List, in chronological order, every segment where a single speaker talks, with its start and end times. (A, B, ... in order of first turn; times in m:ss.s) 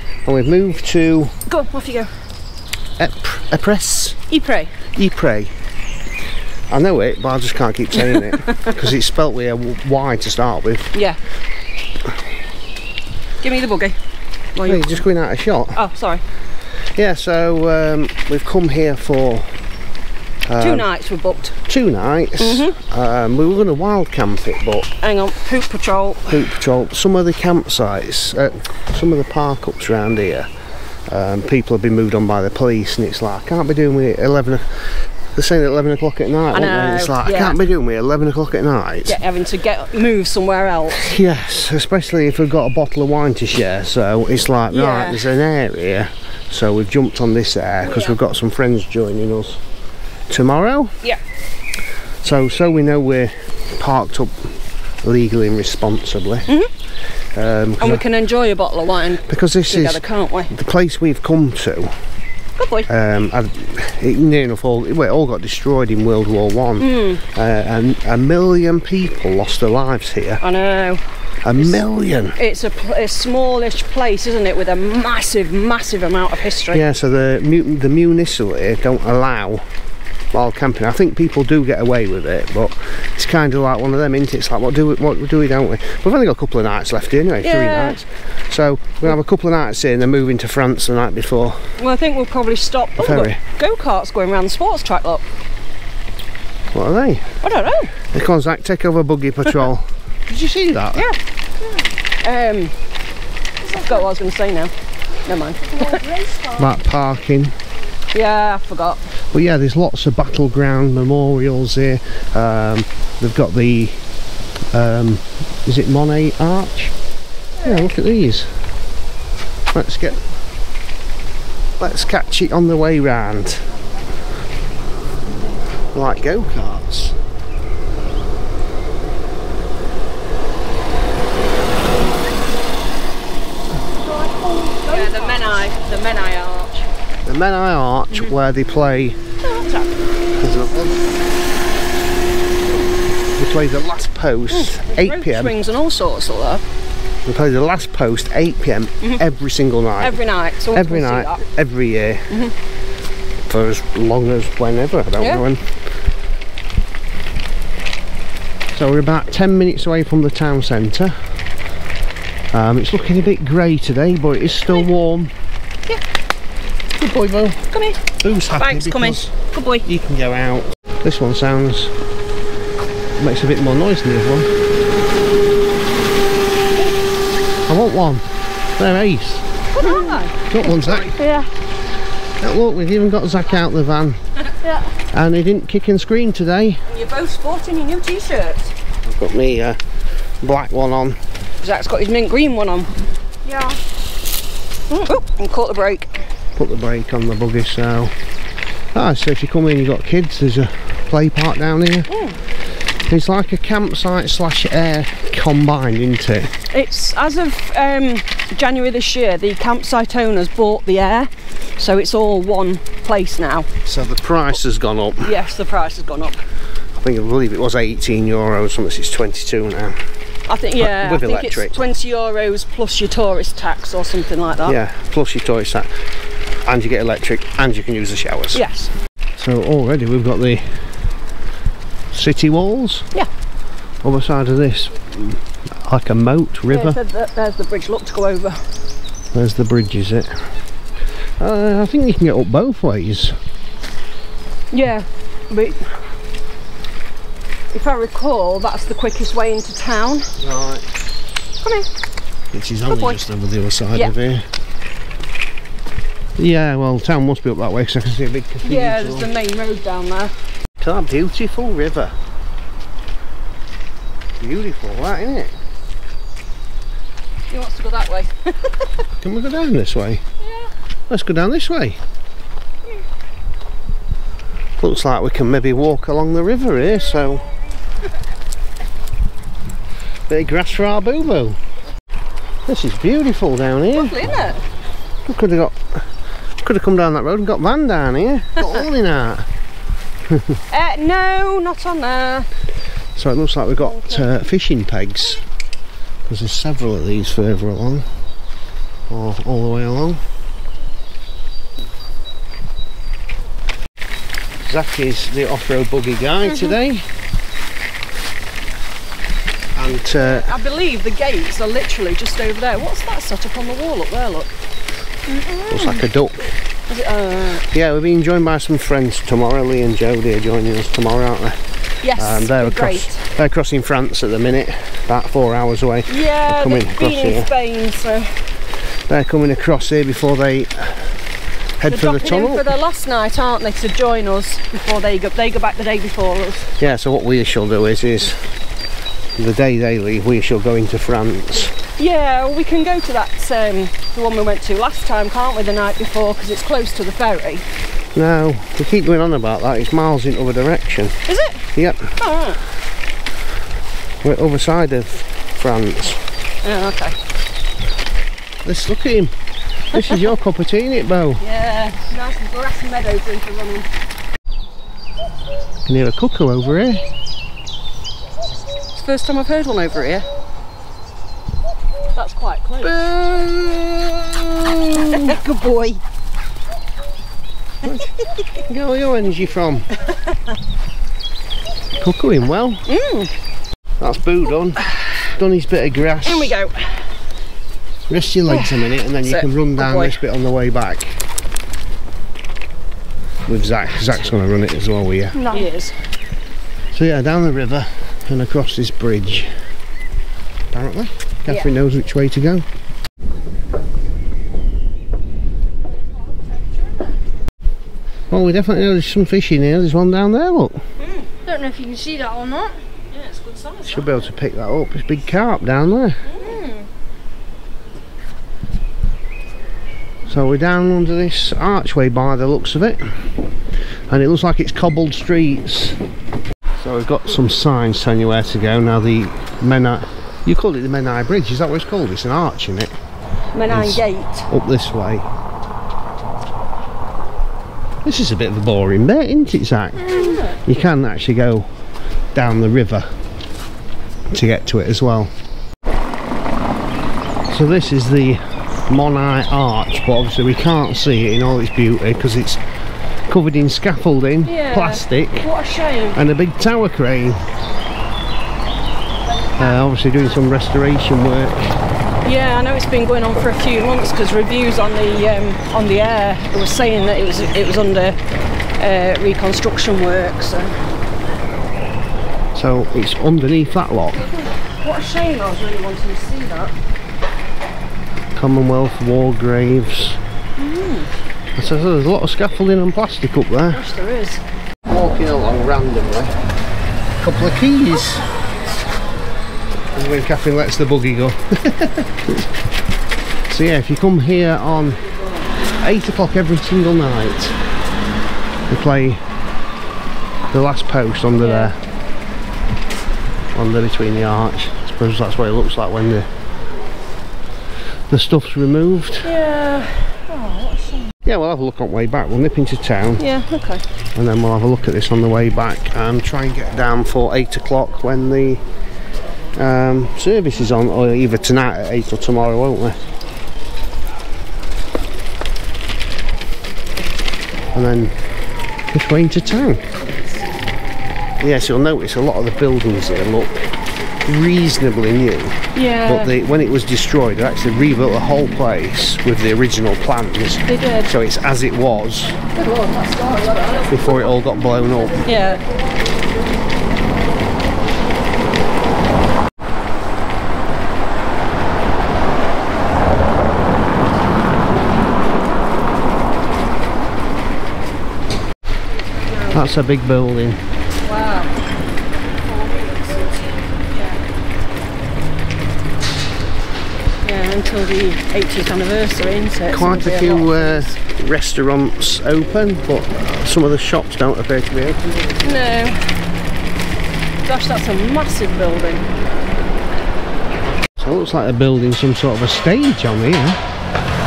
0:00.2-0:01.3 A
0:01.5-0:02.1 B
0:03.0-0:04.2 A
0:04.3-0:04.8 B
0:04.9-0:05.5 A
0:06.7-0:10.9 A
0:08.0-0:08.8 B
0:10.9-0:11.2 B
0:13.4-0:14.0 B
0:14.5-0:15.0 B
0:14.6-0:15.8 A
0:15.7-0:16.2 B
0:16.9-0:19.5 A
0:20.5-0:20.9 A
0:20.6-0:21.6 B
0:21.6-0:24.9 A
0:22.4-0:22.8 B
0:25.0-0:26.4 B
0:26.3-0:30.5 A
0:31.1-0:39.2 A
0:36.5-0:37.6 B
0:39.0-0:41.1 B
0:40.9-0:49.6 A
0:44.7-0:45.3 B
0:47.8-0:48.2 B
0:50.3-0:51.0 A
0:52.2-0:56.5 A
0:57.3-0:58.0 A
0:57.8-1:00.5 B
0:59.2-1:02.0 A
1:02.6-1:02.9 B
1:02.9-1:10.4 A
1:06.8-1:07.2 B
1:10.4-1:11.0 B
1:11.4-1:12.4 A
1:12.3-1:16.8 B
1:16.7-1:19.7 A
1:20.3-1:31.7 A
1:27.4-1:28.0 B
1:31.8-1:35.2 B
1:33.0-1:33.4 A
1:36.7-1:37.4 A
1:37.4-1:37.9 B
1:38.1-1:41.0 A
1:42.2-1:42.7 B
1:43.6-1:44.1 C
1:43.7-1:44.7 B
1:45.2-1:46.1 B
1:45.7-1:46.8 C
1:46.5-1:47.5 A
1:48.1-1:49.1 B
1:49.3-1:54.0 A
1:54.7-1:56.9 A
1:57.6-1:58.5 A
1:59.7-2:00.2 A
2:01.8-2:03.7 A
2:05.9-2:07.2 A
2:13.9-2:15.7 C
2:14.9-2:16.9 B
2:17.2-2:19.2 A
2:19.4-2:20.0 B
2:20.4-2:21.0 A
2:23.4-2:25.6 A
2:24.5-2:26.6 B
2:27.2-2:32.3 A
2:30.0-2:31.4 B
2:32.3-2:32.5 B
2:33.4-2:35.8 A
2:35.2-2:35.4 B
2:38.7-2:41.2 A
2:42.5-2:45.3 A
2:47.0-2:49.3 A
2:47.7-2:48.0 B
2:48.5-2:49.8 B
2:49.8-2:51.9 A
2:53.2-2:54.5 A
2:57.7-2:58.2 A
2:58.8-2:59.4 A
2:59.7-3:01.1 B
2:59.8-3:00.2 C
3:00.5-3:01.1 A
3:01.1-3:01.5 C
3:02.4-3:04.2 A
3:04.6-3:04.9 C
3:05.1-3:06.8 A
3:06.9-3:08.7 B
3:09.0-3:09.8 A
3:10.4-3:11.2 A
3:11.6-3:12.9 B
3:13.4-3:13.8 C
3:14.9-3:16.1 B
3:16.6-3:18.1 A
3:18.9-3:22.1 A
3:22.1-3:22.4 B
3:23.0-3:26.5 A
3:26.7-3:33.7 B
3:33.8-3:35.3 A
3:35.2-3:36.4 B
3:37.0-3:40.0 A
3:40.5-3:44.8 B
3:40.8-3:41.8 A
3:44.6-3:45.9 A
3:46.6-3:48.6 A
3:48.5-3:48.9 B
3:49.4-3:50.8 A
3:52.1-3:53.1 A
3:54.0-3:57.0 A
3:56.7-3:58.6 B
3:59.3-4:00.3 A
4:01.4-4:03.4 A
4:04.7-4:05.9 B
4:07.7-4:10.3 B
4:10.4-4:10.8 A
4:11.6-4:11.9 B
4:12.5-4:14.5 A
4:12.8-4:13.2 B
4:16.4-4:19.3 A
4:18.6-4:20.3 B
4:20.8-4:22.1 A
4:24.4-4:25.6 A
4:27.5-4:28.9 B
4:29.2-4:30.2 A
4:31.1-4:32.0 A
4:34.8-4:37.4 A
4:40.3-4:41.6 A
4:42.6-4:44.2 A
4:43.9-4:44.6 B
4:45.2-4:46.1 A
4:46.6-4:49.5 A
4:50.3-4:50.6 A
4:50.7-4:52.5 B
4:53.1-4:55.4 A
4:56.2-4:58.1 A
4:59.1-5:00.2 A
5:04.6-5:07.1 A
5:09.7-5:10.5 A
5:10.2-5:14.5 B
5:15.3-5:15.8 C
5:15.7-5:16.5 A
5:16.9-5:17.7 B
5:17.7-5:21.6 A
5:22.0-5:23.2 B
5:22.1-5:27.5 A
5:26.1-5:28.3 B
5:29.1-5:31.1 A
5:31.8-5:32.7 A
5:31.8-5:36.7 B
5:36.8-5:38.4 A
5:39.4-5:41.8 A
5:42.0-5:47.6 B
5:48.1-5:51.2 A
5:51.2-5:52.6 B
5:51.7-5:52.1 A
5:54.2-5:56.3 A
5:56.6-5:57.2 B
5:58.6-5:59.3 A
5:59.9-6:01.4 A
6:01.4-6:03.9 B
6:05.8-6:07.0 A
6:08.9-6:10.2 B
6:12.1-6:13.0 B
6:12.8-6:15.4 A
6:15.0-6:16.0 B
6:18.6-6:19.9 A
6:22.0-6:22.8 A
6:22.9-6:23.3 B
6:24.0-6:26.6 A
6:26.2-6:27.0 B
6:28.1-6:31.2 A
6:28.5-6:30.2 B
6:33.4-6:35.4 A
6:35.3-6:35.7 C
6:35.5-6:36.0 B
6:36.9-6:39.5 A
6:40.7-6:42.6 A
6:41.4-6:41.7 B
6:48.3-6:50.8 A
6:51.0-6:51.3 B
6:51.4-6:52.8 C
6:53.1-6:54.1 B
6:53.8-6:56.2 A
6:56.2-6:56.8 B
7:00.3-7:03.2 A
7:04.1-7:06.0 A
7:06.8-7:13.0 A
7:13.5-7:14.5 B
7:13.7-7:15.3 A
7:18.0-7:21.7 A
7:20.0-7:20.6 B
7:20.1-7:20.4 C
7:22.3-7:23.1 A
7:24.3-7:25.3 A
7:27.5-7:32.6 A
7:33.3-7:35.5 A
7:34.4-7:36.2 B
7:36.1-7:37.4 A
7:39.5-7:39.8 B
7:39.6-7:41.8 A
7:42.2-7:48.2 B
7:48.8-7:50.7 B
7:52.5-7:54.3 A
7:54.2-7:56.7 B
7:58.3-8:00.2 A
8:00.6-8:01.1 B
8:01.6-8:03.9 A
8:03.7-8:04.4 B
8:04.9-8:06.3 A
8:07.2-8:08.2 A
8:09.9-8:12.5 A
8:13.5-8:15.0 A
8:15.8-8:17.6 A
8:18.7-8:19.2 A
8:20.5-8:21.8 A
8:21.4-8:21.7 B
8:23.5-8:26.3 A
8:28.1-8:29.4 A
8:29.2-8:31.1 B
8:31.2-8:33.3 A
8:33.2-8:33.8 B
8:34.1-8:38.6 A
8:39.6-8:43.0 A
8:47.7-8:48.2 A
8:48.9-8:49.8 A
8:51.4-8:53.7 A
8:54.2-9:02.4 A
8:55.7-8:56.3 B
9:00.7-9:01.1 B
9:02.5-9:04.1 B
9:03.9-9:05.3 A
9:05.2-9:05.6 B
9:18.9-9:19.7 B
9:19.5-9:20.6 A
9:21.0-9:21.5 B
9:22.5-9:23.4 B
9:23.9-9:24.2 B
9:27.2-9:31.0 B
9:29.7-9:35.3 A
9:35.4-9:36.1 B
9:37.4-9:39.1 B
9:41.0-9:43.6 A